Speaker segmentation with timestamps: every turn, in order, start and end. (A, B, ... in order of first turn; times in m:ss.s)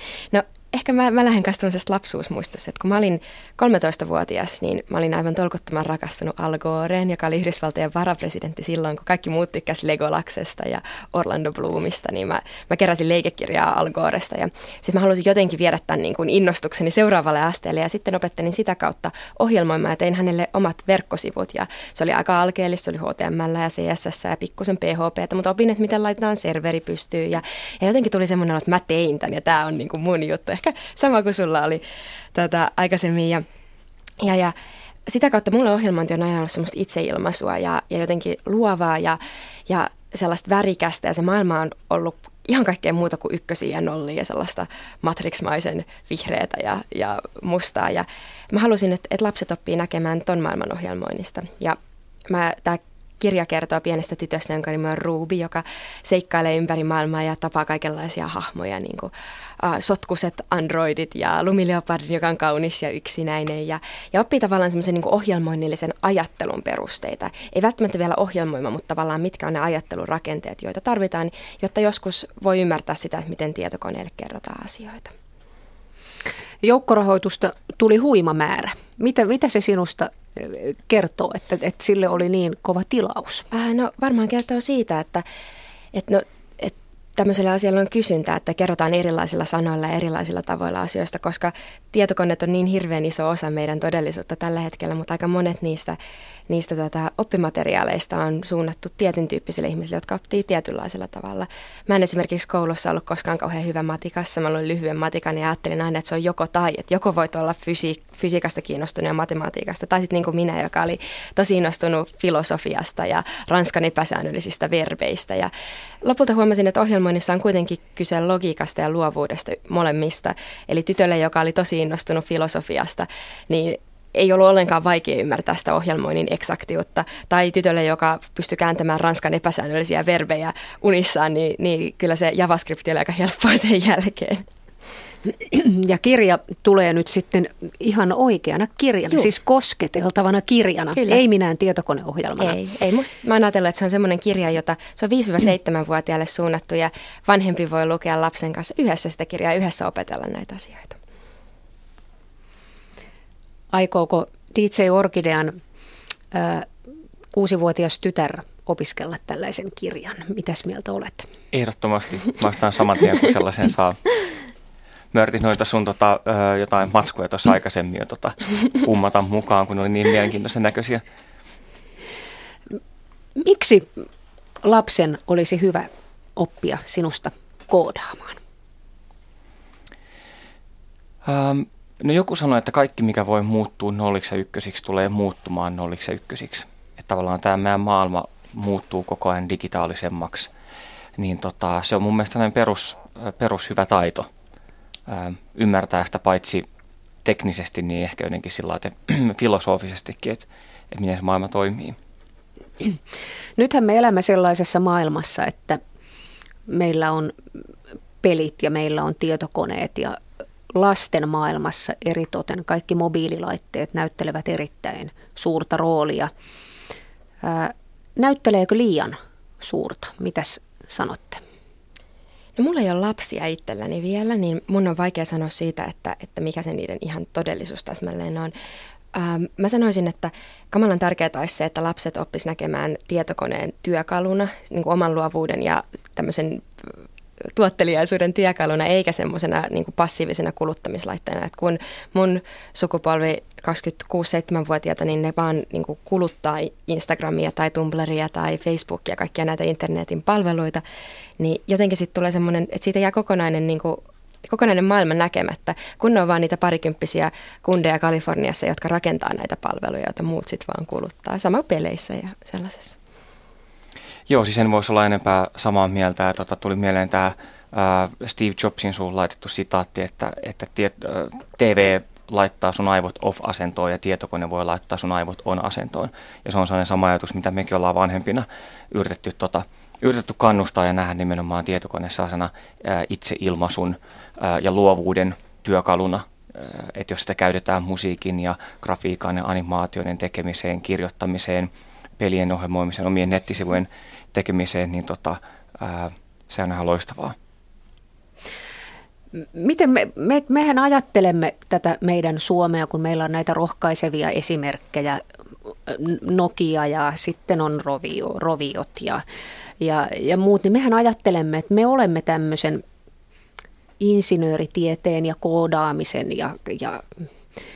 0:00.3-0:31.8 A
0:32.3-0:33.4 A
0:34.2-0:34.5 A
0:35.1-1:15.1 A
1:16.6-1:23.4 B
1:23.5-1:25.2 A
1:25.9-1:36.0 A
1:36.5-1:55.5 A
1:56.0-2:14.4 A
2:15.4-2:22.6 B
2:22.4-2:31.0 A
2:33.7-2:35.6 B
2:36.3-2:36.7 B
2:37.3-2:41.3 B
2:41.5-2:44.0 C
2:45.1-2:51.0 C
2:53.4-2:54.1 B
2:54.6-2:58.4 B
3:01.2-3:10.5 C
3:11.2-3:14.3 C
3:15.1-3:16.6 C
3:17.2-3:22.0 C
3:23.6-3:25.8 B
3:26.7-3:27.3 B
3:28.2-3:30.2 B
3:30.7-3:36.3 B
3:37.4-3:41.4 B
3:42.6-3:48.5 A
3:49.1-3:56.7 A
3:57.5-4:10.8 A
4:11.4-4:23.0 A
4:24.3-4:57.4 C
4:59.4-5:05.2 B
5:05.9-5:09.2 B
5:09.8-5:12.8 B
5:14.0-5:17.0 B